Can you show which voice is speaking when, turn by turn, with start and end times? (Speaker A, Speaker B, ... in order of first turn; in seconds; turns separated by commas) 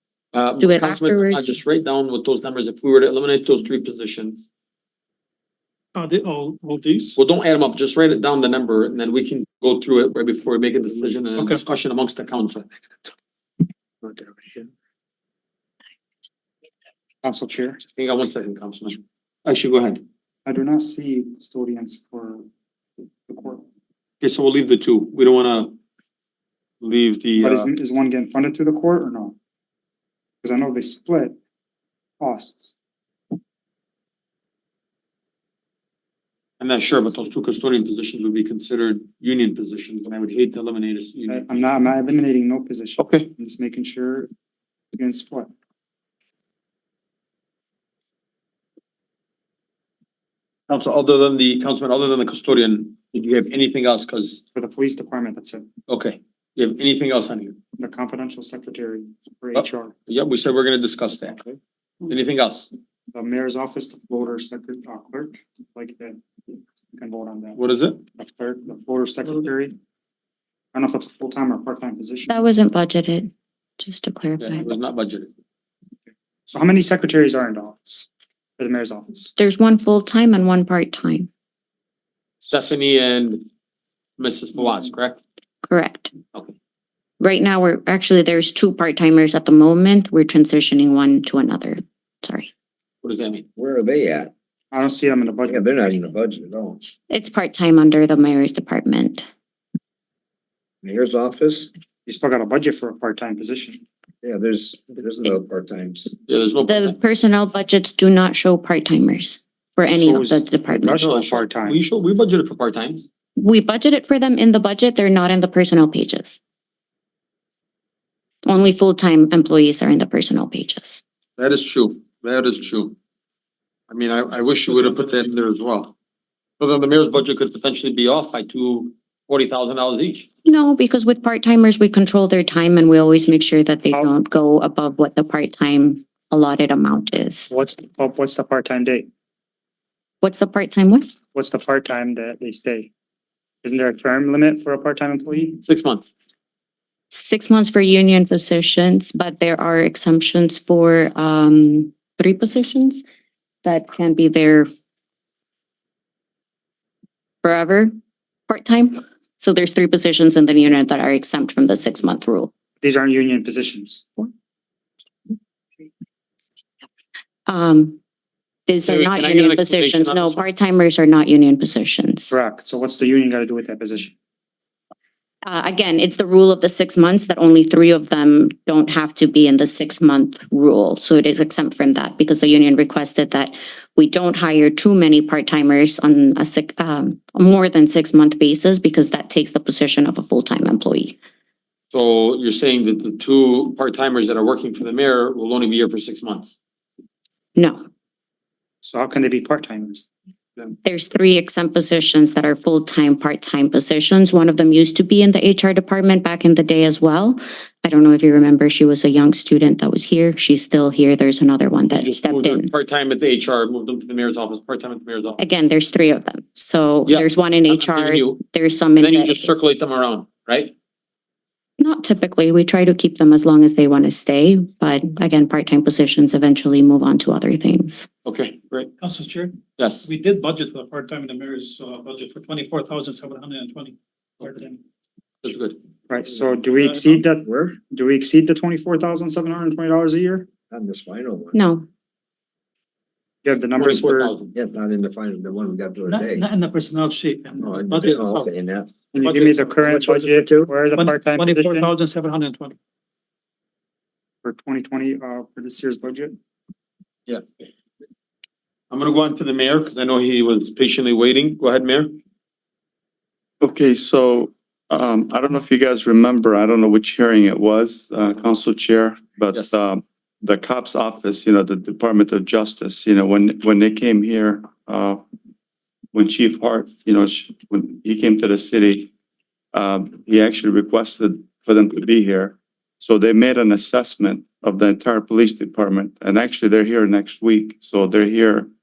Speaker A: 0.3-4.4, Speaker B: 0.6-1.6, Speaker C: 6.0-7.2, Speaker A: 7.2-12.7, Speaker C: 11.4-11.6, Speaker D: 14.0-14.7, Speaker D: 17.2-17.8, Speaker A: 18.0-20.0, Speaker D: 20.5-22.5, Speaker D: 23.3-23.6, Speaker A: 24.2-25.7, Speaker A: 26.8-27.7, Speaker D: 27.4-29.4, Speaker D: 30.4-31.4, Speaker D: 32.2-32.8, Speaker A: 36.6-41.5, Speaker D: 41.3-44.3, Speaker E: 43.0-43.3, Speaker D: 44.9-45.5, Speaker A: 50.7-54.4, Speaker D: 54.5-55.7, Speaker A: 55.9-57.6, Speaker D: 57.8-59.9, Speaker A: 59.5-61.4, Speaker A: 62.1-62.7, Speaker D: 63.1-66.2, Speaker D: 67.0-67.6, Speaker A: 67.6-68.0, Speaker D: 68.2-69.8, Speaker D: 70.7-72.4, Speaker B: 72.2-74.7, Speaker A: 74.4-75.3, Speaker D: 76.5-79.3, Speaker B: 79.4-81.3, Speaker A: 82.4-83.5, Speaker A: 84.2-85.2, Speaker B: 85.7-86.1, Speaker B: 87.2-92.5, Speaker A: 93.0-93.5, Speaker F: 93.6-94.3, Speaker D: 94.7-95.6, Speaker F: 95.5-96.8, Speaker B: 97.1-99.3, Speaker F: 100.8-101.7, Speaker D: 102.1-103.8, Speaker F: 104.2-106.1, Speaker A: 106.3-107.0, Speaker B: 106.7-111.0, Speaker A: 110.0-110.4, Speaker D: 110.0-111.8, Speaker A: 110.9-113.0, Speaker B: 113.4-116.4, Speaker B: 118.5-121.0, Speaker A: 121.4-123.0, Speaker A: 123.9-125.9, Speaker A: 126.6-130.3, Speaker B: 130.4-137.5, Speaker D: 137.5-139.1, Speaker B: 140.2-141.1, Speaker D: 141.3-142.9, Speaker D: 143.6-145.6, Speaker A: 145.6-146.1, Speaker B: 147.1-153.0, Speaker B: 153.6-154.7, Speaker B: 157.4-157.9, Speaker B: 158.5-162.5, Speaker D: 162.8-164.1, Speaker B: 167.5-168.0, Speaker B: 168.7-172.3, Speaker A: 168.8-170.4, Speaker D: 172.3-174.1, Speaker B: 175.5-191.2, Speaker A: 191.9-196.5, Speaker B: 197.6-197.8, Speaker D: 198.8-200.1, Speaker B: 200.8-212.7, Speaker A: 211.9-215.4, Speaker B: 215.4-219.5, Speaker A: 217.1-218.4, Speaker A: 219.0-220.7, Speaker B: 221.8-228.1, Speaker A: 228.2-228.9, Speaker C: 229.0-234.8, Speaker A: 229.8-230.1, Speaker A: 235.4-235.8, Speaker D: 236.1-240.5, Speaker C: 236.7-237.2, Speaker F: 237.4-237.8, Speaker F: 240.7-241.6, Speaker B: 241.5-241.9, Speaker D: 243.4-244.3, Speaker A: 243.8-244.5, Speaker F: 244.5-246.5, Speaker C: 246.1-248.5, Speaker F: 247.6-248.9, Speaker D: 249.1-251.9, Speaker C: 249.2-252.8, Speaker D: 254.4-256.4, Speaker A: 258.9-262.2, Speaker E: 263.6-275.2, Speaker E: 276.1-279.1, Speaker E: 279.7-288.7